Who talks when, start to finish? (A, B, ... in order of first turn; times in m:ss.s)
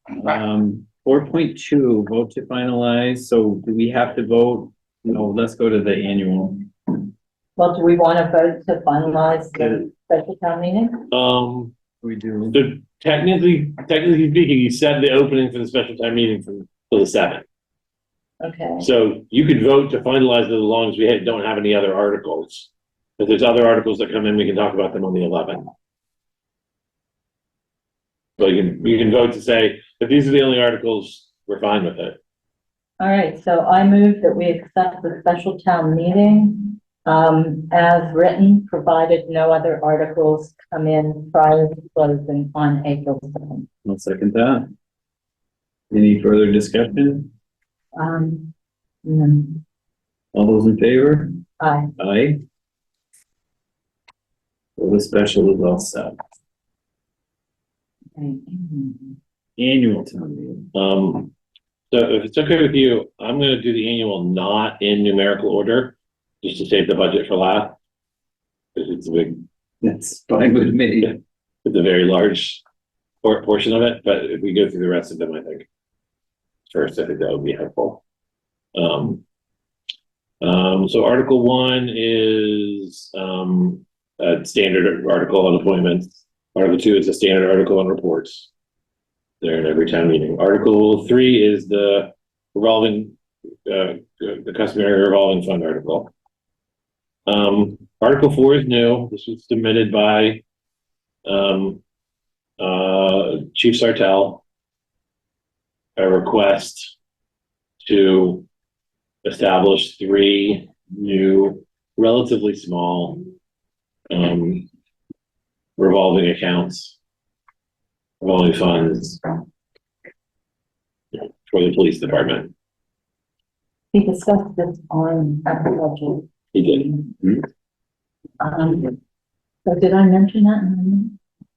0:00.2-0:06.7 A
0:07.6-0:11.0 B
0:11.1-0:11.7 C
0:12.0-0:12.6 A
0:12.5-0:17.4 C
0:18.4-0:18.9 B
0:18.8-0:25.6 C
0:28.4-0:32.2 C
0:33.0-0:43.7 B
0:43.8-0:44.7 A
0:45.9-0:47.3 A
0:47.9-0:48.5 B
0:49.0-0:49.6 B
0:50.3-0:51.4 A
0:51.6-0:51.9 B
0:52.0-0:52.4 A
0:54.8-0:56.2 A
0:58.2-0:59.2 B
0:59.6-1:00.7 A
1:00.7-1:01.3 C
1:01.9-1:07.8 C
1:08.8-1:09.4 C
1:09.8-1:11.2 A
1:11.6-1:12.6 C
1:13.2-1:15.6 C
1:16.7-1:18.0 C
1:18.7-1:19.2 C
1:20.4-1:28.5 C
1:29.4-1:36.1 C
1:37.3-1:40.4 C
1:41.2-1:41.8 C
1:42.6-1:44.4 C
1:46.0-1:46.9 C
1:47.8-1:48.4 C
1:49.2-1:53.2 C
1:54.1-1:54.7 C
1:55.8-1:57.0 C
1:58.2-1:59.2 C
2:01.1-2:02.5 C
2:03.9-2:07.1 B
2:06.5-2:06.8 C
2:08.4-2:09.0 B
2:09.6-2:11.2 B